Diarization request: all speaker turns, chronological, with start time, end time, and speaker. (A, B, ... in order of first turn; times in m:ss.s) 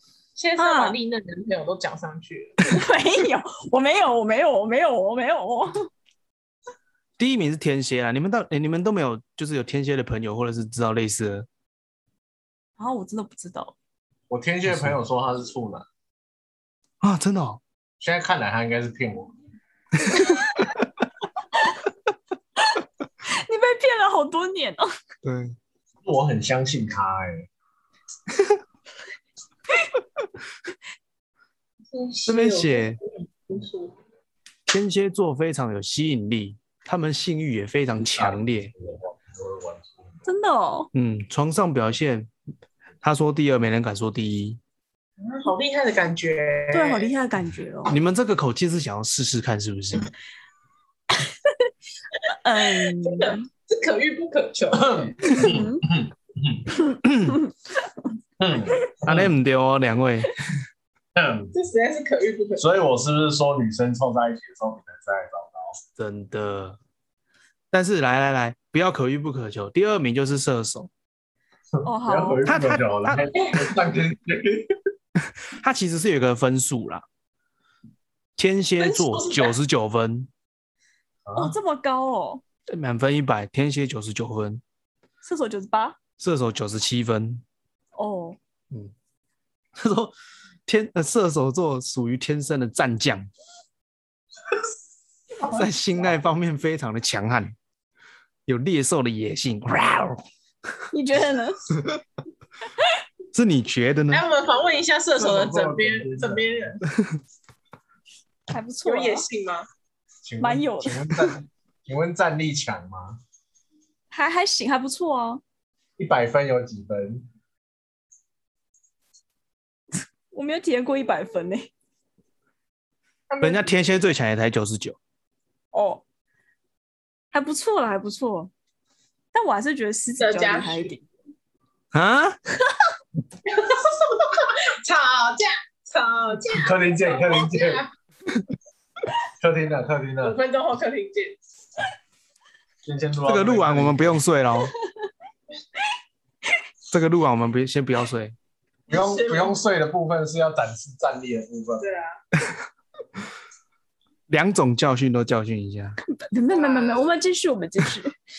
0:00.4-0:02.6 A
0:00.6-0:01.0 B
0:02.7-0:05.9 B
0:07.2-0:11.5 C
0:12.8-0:13.8 B
0:14.3-0:15.9 D
0:14.7-0:15.0 C
0:17.0-0:17.6 C
0:18.0-0:19.3 D
0:23.2-0:24.9 B
0:25.2-0:25.6 C
0:26.0-0:27.5 D
0:31.9-0:34.0 A
0:32.3-0:33.0 C
0:34.7-0:38.7 C
0:38.0-0:40.2 D
0:40.2-0:40.9 B
0:40.9-0:42.3 C
0:43.0-0:44.6 C
0:45.2-0:47.1 A
0:46.7-0:48.0 B
0:47.9-0:50.1 C
0:52.4-0:53.5 B
0:52.8-0:55.3 A
0:54.8-0:56.7 D
0:55.4-0:55.8 B
0:56.9-0:57.4 C
0:58.4-0:59.3 D
0:59.0-1:00.3 C
1:01.2-1:01.5 D
1:01.5-1:02.7 A
1:02.6-1:05.8 D
1:06.0-1:06.8 C
1:07.7-1:10.9 C
1:11.8-1:14.7 D
1:11.8-1:12.5 B
1:12.4-1:13.3 C
1:13.3-1:13.8 A
1:15.2-1:17.0 C
1:18.4-1:20.3 C
1:18.8-1:19.6 A
1:21.3-1:21.6 D
1:21.4-1:22.4 B
1:22.7-1:24.6 C
1:25.2-1:26.0 B
1:26.2-1:27.4 C
1:28.0-1:28.4 B
1:29.8-1:30.1 C
1:30.7-1:33.3 C
1:35.4-1:37.6 C
1:38.5-1:40.2 C
1:40.9-1:41.6 B
1:43.3-1:44.2 C
1:44.1-1:46.8 A
1:45.2-1:46.8 D
1:48.5-1:49.3 B
1:48.8-1:49.7 A
1:50.2-1:53.2 D
1:50.4-1:51.1 B
1:54.1-1:55.4 B
1:56.0-1:57.2 D
2:00.3-2:01.7 B
2:03.3-2:03.7 A
2:03.4-2:05.0 C
2:05.7-2:06.0 B
2:07.3-2:08.5 B
2:09.3-2:11.0 B
2:10.2-2:10.9 A
2:11.9-2:12.4 C
2:13.5-2:17.9 A
2:16.5-2:17.8 D
2:19.4-2:20.4 D
2:20.2-2:21.4 A
2:22.8-2:24.2 D
2:23.3-2:24.7 C
2:26.9-2:28.4 C
2:28.9-2:31.9 D
2:28.9-2:29.6 A
2:31.8-2:32.2 A
2:34.3-2:36.0 C
2:36.0-2:38.1 B
2:36.5-2:37.1 A